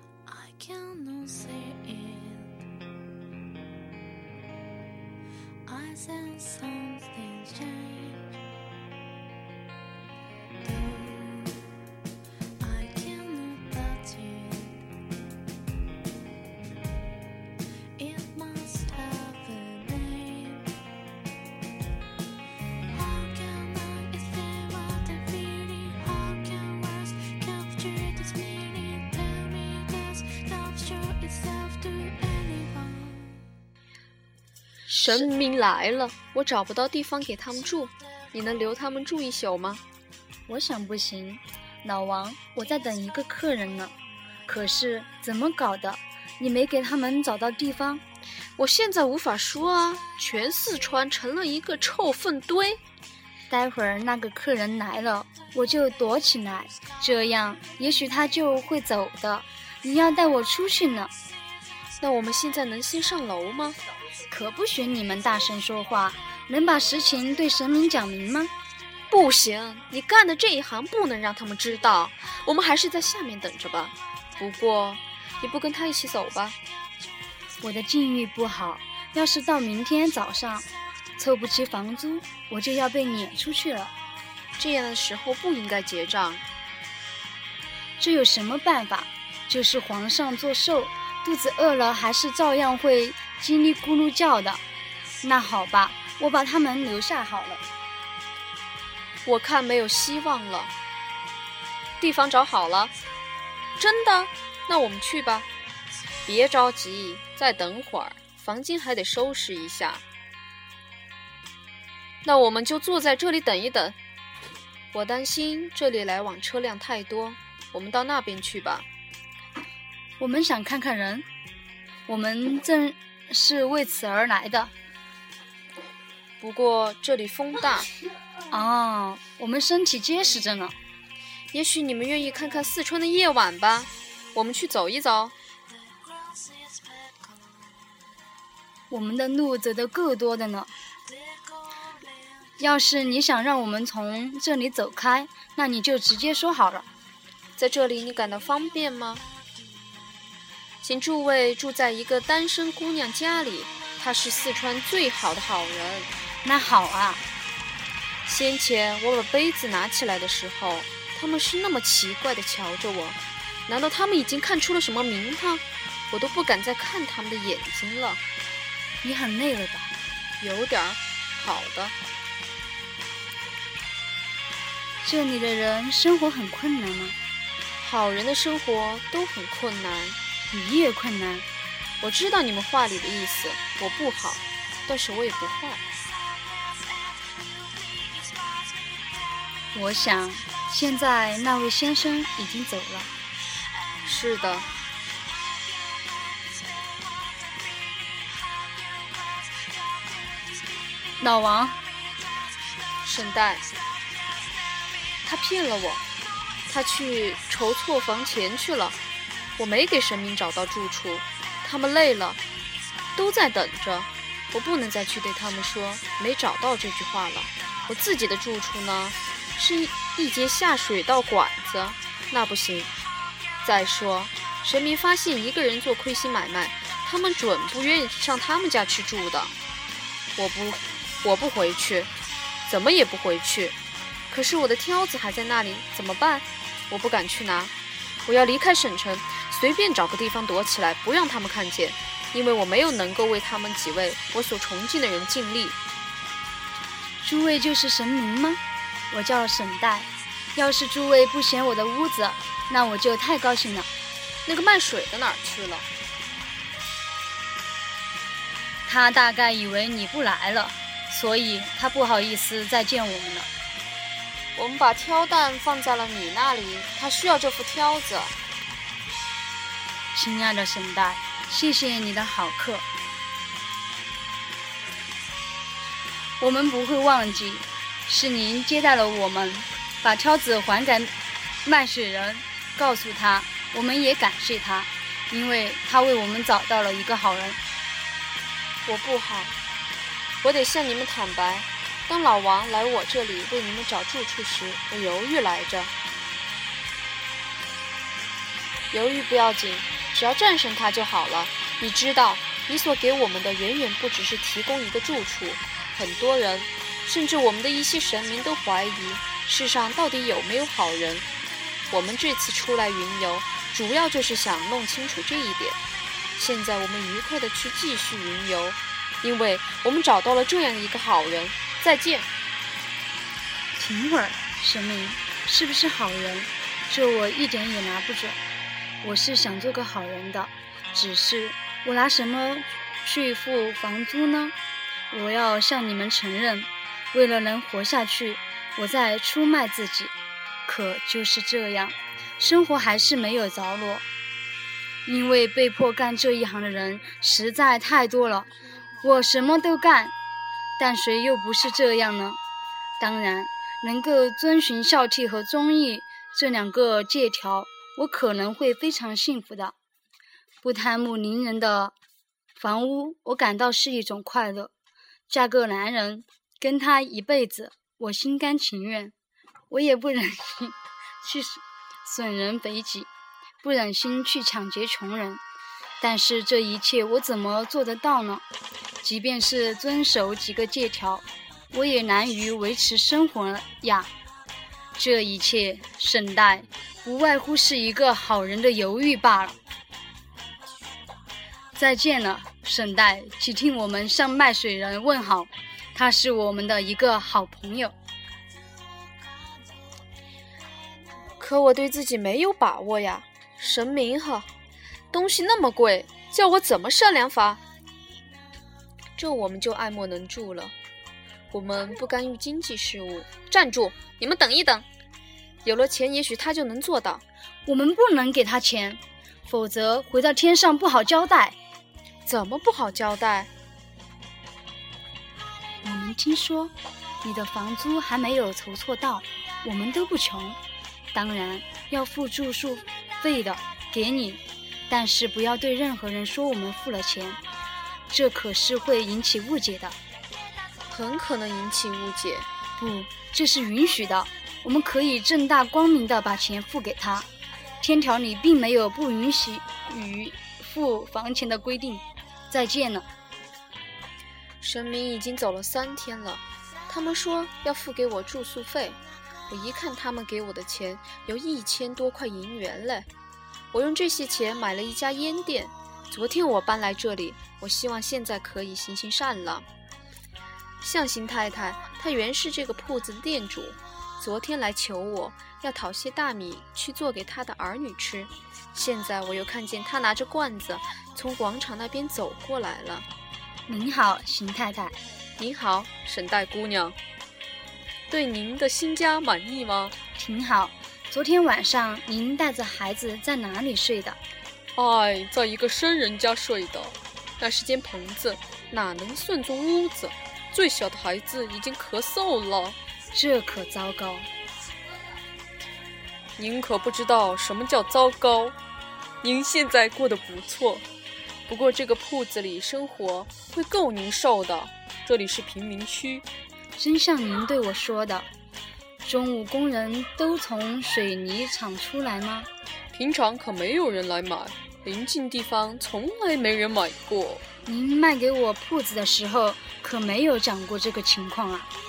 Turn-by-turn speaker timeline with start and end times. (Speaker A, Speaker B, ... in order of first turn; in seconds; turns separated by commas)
Speaker A: 0.3-2.6, Speaker A: 5.7-8.3, Speaker A: 10.6-11.6, Speaker A: 12.6-14.8, Speaker A: 18.0-20.6, Speaker A: 22.9-33.4, Speaker B: 34.9-39.8, Speaker C: 40.5-43.9, Speaker C: 44.5-48.0, Speaker B: 48.6-52.8, Speaker C: 53.5-61.1, Speaker B: 62.0-63.8, Speaker C: 64.3-68.5, Speaker B: 69.1-76.6, Speaker C: 77.6-83.9, Speaker B: 84.6-86.4, Speaker C: 88.0-94.6, Speaker C: 95.2-97.6, Speaker B: 99.2-100.7, Speaker B: 102.0-102.9, Speaker B: 103.8-105.5, Speaker B: 106.2-110.0, Speaker B: 112.2-114.0, Speaker B: 114.9-118.8, Speaker C: 120.2-121.2, Speaker C: 122.1-124.7, Speaker B: 126.4-127.9, Speaker C: 128.5-130.8, Speaker B: 131.5-135.3, Speaker C: 138.9-140.7, Speaker C: 142.6-146.8, Speaker B: 147.6-149.2, Speaker B: 150.8-156.1, Speaker C: 156.4-157.2, Speaker B: 158.2-168.2, Speaker C: 169.0-169.9, Speaker B: 170.4-171.9, Speaker C: 175.0-177.2, Speaker B: 177.8-180.2, Speaker C: 180.5-181.4, Speaker B: 182.0-185.8, Speaker C: 189.7-193.1, Speaker B: 194.0-194.7, Speaker C: 201.2-201.8, Speaker B: 203.0-203.7, Speaker B: 205.2-206.0, Speaker B: 206.7-209.0, Speaker B: 209.6-212.4, Speaker B: 213.2-222.9, Speaker B: 223.6-229.5, Speaker B: 230.4-232.1, Speaker B: 232.7-233.7, Speaker B: 234.3-237.7, Speaker B: 238.2-245.8, Speaker C: 247.2-253.9, Speaker B: 254.4-255.9, Speaker C: 258.9-263.5, Speaker B: 264.6-268.3, Speaker C: 270.1-272.9, Speaker C: 276.4-281.1, Speaker C: 281.6-287.6, Speaker B: 288.9-289.5, Speaker B: 290.4-295.9, Speaker B: 298.9-311.2, Speaker B: 311.9-315.8, Speaker B: 316.4-322.3, Speaker C: 323.8-328.4, Speaker C: 329.0-334.5, Speaker C: 335.1-340.1, Speaker C: 340.6-344.0, Speaker C: 345.1-350.1, Speaker C: 350.8-352.4, Speaker C: 353.0-359.7, Speaker C: 360.6-361.9, Speaker C: 362.6-364.7, Speaker C: 365.3-369.1, Speaker C: 369.7-373.1, Speaker C: 373.6-375.4, Speaker C: 376.0-378.4, Speaker C: 379.0-384.1, Speaker C: 384.9-389.6, Speaker C: 391.7-397.9, Speaker B: 401.4-404.5, Speaker B: 405.1-407.6, Speaker B: 409.2-410.7, Speaker B: 411.5-414.9, Speaker B: 415.6-417.2, Speaker C: 417.6-421.6, Speaker B: 422.2-423.5, Speaker C: 425.8-430.6, Speaker C: 431.1-437.4, Speaker C: 438.1-440.0, Speaker B: 440.9-442.4, Speaker C: 442.8-447.3, Speaker C: 447.8-453.1, Speaker B: 454.6-463.1, Speaker B: 463.7-469.6, Speaker B: 470.8-483.1, Speaker C: 483.7-485.0, Speaker B: 485.4-486.9, Speaker B: 488.1-489.9, Speaker C: 490.1-494.2, Speaker B: 494.8-502.8, Speaker C: 503.1-504.3, Speaker B: 506.4-508.5, Speaker B: 509.2-510.8, Speaker B: 511.5-516.2, Speaker C: 516.8-518.3, Speaker C: 519.0-522.5, Speaker B: 522.9-527.4, Speaker C: 527.6-531.7